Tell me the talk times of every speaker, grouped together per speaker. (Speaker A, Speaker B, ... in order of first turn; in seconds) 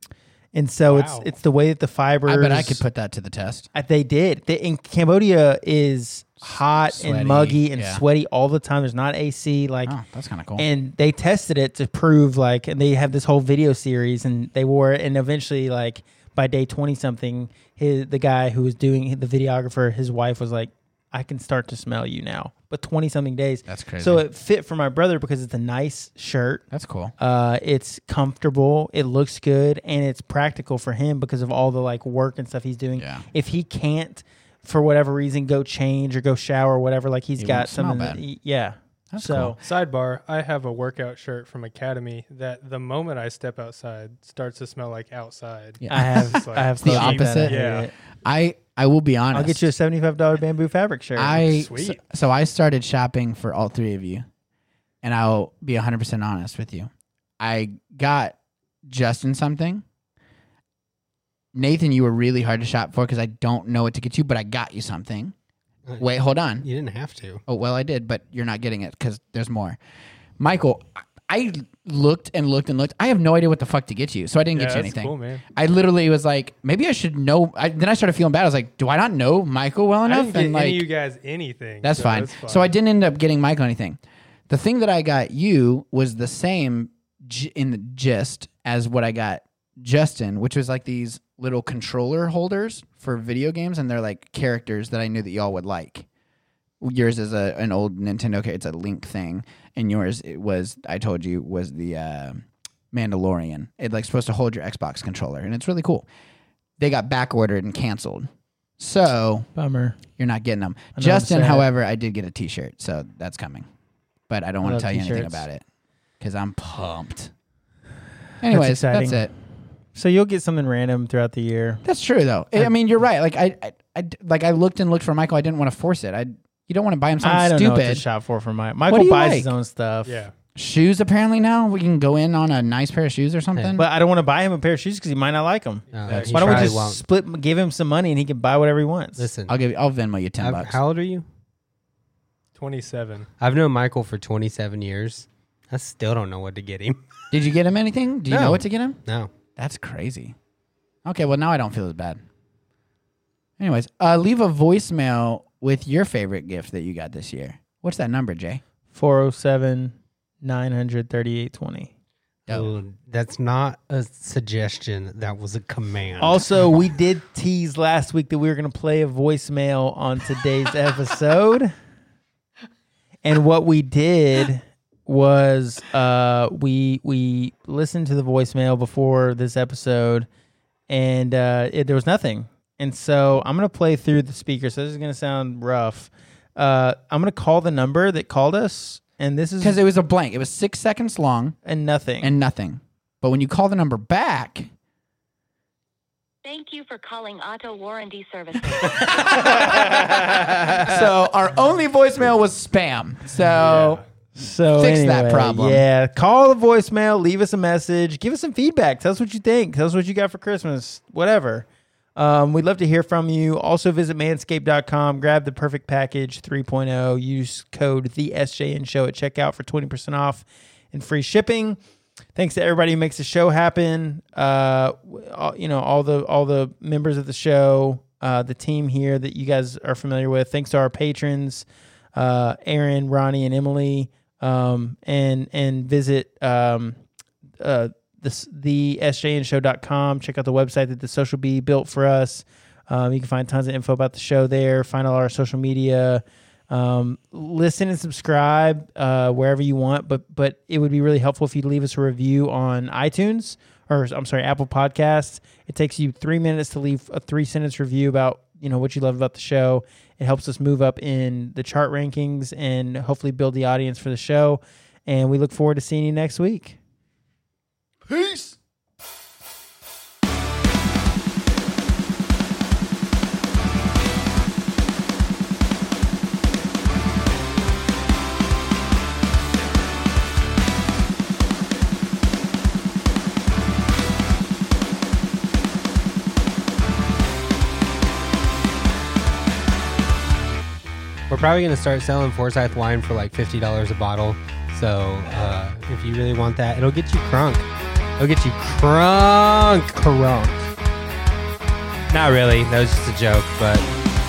Speaker A: 0.5-2.9, 3.7-9.9, 10.6-26.6, 27.2-39.6, 45.9-48.0, 49.3-51.5, 109.5-110.0, 111.0-111.7, 114.6-115.5, 118.5-119.2, 119.9-121.8, 127.2-130.2, 133.8-139.3, 158.9-161.9, 166.2-171.7, 173.2-180.3, 180.9-189.8, 191.7-192.3, 199.2-201.0, 204.4-221.8, 222.3-237.0, 237.6-266.8
Speaker B: 0.8-1.3, 39.6-47.9, 51.3-52.0, 74.5-75.4, 80.0-82.7, 130.1-130.3, 136.0-136.8, 142.6-143.3, 203.5-204.0
Speaker C: 2.3-3.7, 6.4-8.0, 9.9-10.7, 23.7-24.2, 26.7-27.1, 33.0-33.3, 37.4-38.2, 39.1-39.6, 45.8-47.6, 48.2-49.7, 51.2-54.2, 55.0-59.8, 61.5-65.3, 66.0-66.7, 67.5-69.8, 70.4-80.8, 81.8-96.1, 96.8-106.1, 106.8-109.5, 110.1-113.7, 114.3-115.6, 116.2-117.3, 118.4-119.3, 121.8-128.0, 128.9-129.5, 130.6-133.9, 139.5-140.8, 147.3-149.0, 149.6-150.3, 151.1-152.2, 153.6-158.6, 162.5-162.7, 189.6-191.6, 192.2-194.7, 198.7-204.0, 204.7-205.9, 268.1-268.5
Speaker D: 66.6-67.4, 133.6-133.8, 135.9-137.0, 139.2-139.6, 140.4-141.2, 143.4-147.0, 148.3-149.3, 162.5-166.4, 291.3-297.7, 298.2-300.8, 302.1-303.9
Speaker E: 196.4-199.7